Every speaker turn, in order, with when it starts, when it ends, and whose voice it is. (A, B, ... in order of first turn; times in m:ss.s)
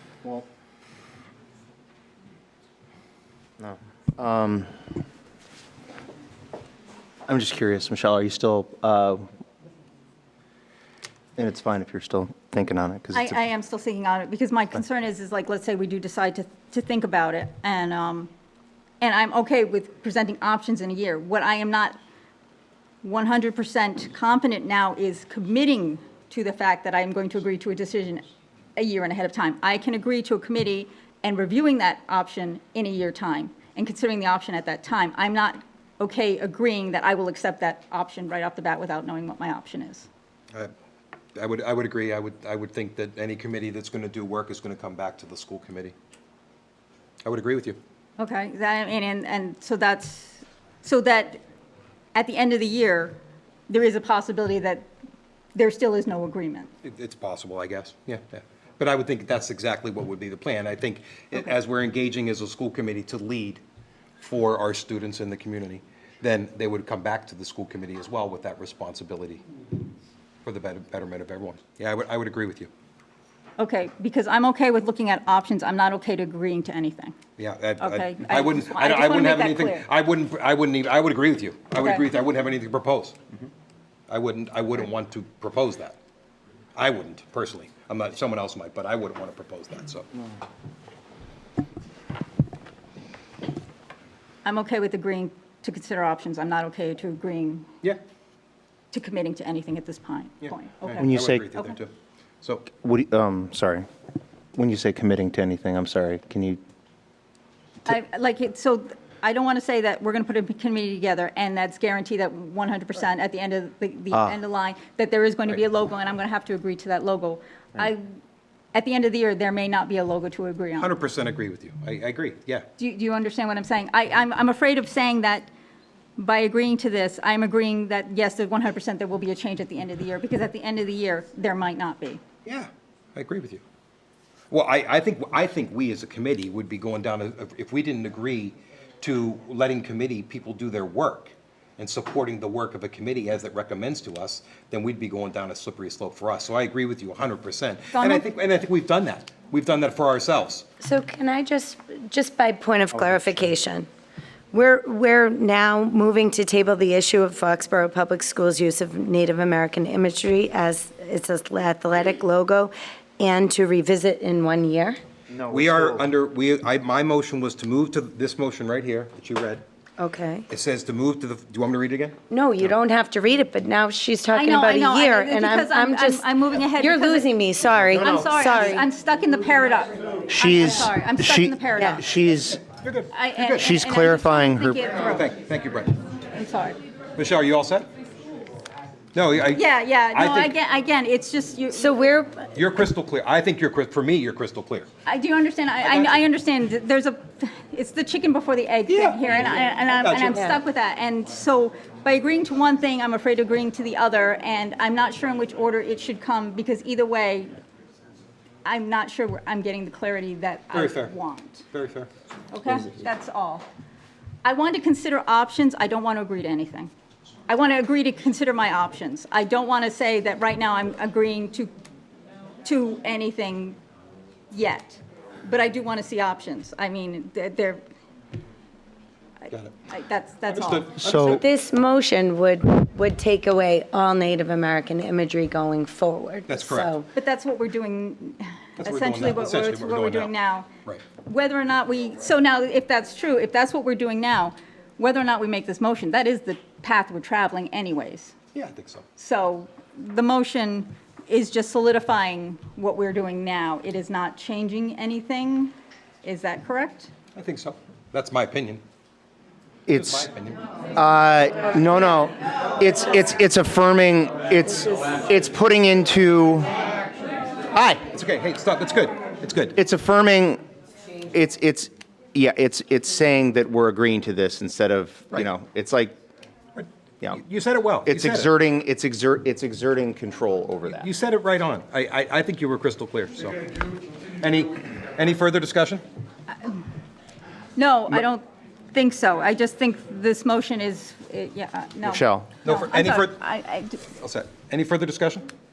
0:03.6-0:05.0 A
0:07.3-0:09.3 A
0:11.4-0:13.4 A
0:13.1-0:18.3 B
0:19.0-0:22.0 B
0:23.0-0:40.1 B
0:41.4-0:45.9 C
0:47.2-0:47.8 C
0:48.2-0:51.4 B
0:52.1-0:53.2 B
0:53.7-0:54.9 B
0:55.6-0:56.7 B
0:56.8-1:03.6 C
1:04.2-1:09.4 C
1:10.4-1:12.7 C
1:13.6-1:17.2 B
1:17.4-1:23.2 C
1:17.8-1:19.8 B
1:21.8-1:22.0 B
1:24.1-1:26.0 C
1:26.8-1:30.1 C
1:34.4-1:37.7 B
1:38.9-1:41.7 B
1:40.4-1:42.6 C
1:41.0-1:41.5 A
1:42.7-1:43.9 A
1:44.6-1:46.6 A
1:47.8-1:58.1 B
1:58.7-2:00.9 B
2:00.8-2:02.6 C
2:02.8-2:05.5 B
2:06.2-2:12.2 B
2:12.4-2:13.6 C
2:14.5-2:30.7 C
2:27.9-2:28.2 B
2:30.8-2:33.9 D
2:32.9-2:33.5 A
2:34.5-2:45.0 D
2:45.3-2:46.1 A
2:45.5-2:49.6 C
2:50.0-2:50.5 D
2:50.5-2:52.7 C
2:52.3-2:58.9 D
2:54.3-2:57.3 B
2:57.9-3:02.0 B
2:58.0-2:58.3 A
3:00.3-3:02.6 A
3:02.6-3:03.7 C
3:03.1-3:05.3 B
3:03.6-3:04.8 A
3:05.1-3:06.0 C
3:06.3-3:06.8 B
3:07.2-3:07.9 C
3:09.1-3:10.5 C
3:09.5-3:12.0 B
3:11.7-3:12.5 D
3:12.6-3:14.9 C
3:15.0-3:27.5 B
3:15.8-3:16.2 C
3:18.9-3:20.5 C
3:28.6-3:31.6 B
3:30.7-3:31.1 C
3:31.7-3:32.1 C
3:32.5-3:33.6 B
3:34.4-3:36.9 B
3:37.5-3:41.7 B
3:42.6-3:43.8 B
3:44.5-3:47.8 B
3:49.9-3:50.9 B
3:50.5-3:51.4 C
3:51.1-3:51.4 A
3:51.1-3:57.1 D
3:56.5-3:57.0 C
3:57.2-4:00.7 B
3:58.8-4:00.3 C
4:01.2-4:08.4 B
4:08.5-4:09.1 C
4:09.2-4:17.1 B
4:17.4-4:18.8 C
4:19.9-4:20.3 A
4:19.9-4:20.6 C
4:21.0-4:26.7 A
4:27.7-4:28.1 A
4:28.1-4:29.8 C
4:29.8-4:30.6 A
4:31.3-4:36.2 A
4:36.8-4:38.5 C
4:38.0-4:41.1 A
4:40.9-4:43.7 C
4:44.4-4:46.0 C
4:47.8-4:54.1 B
4:52.0-4:52.5 A
4:52.6-4:53.4 C
4:54.1-4:55.5 C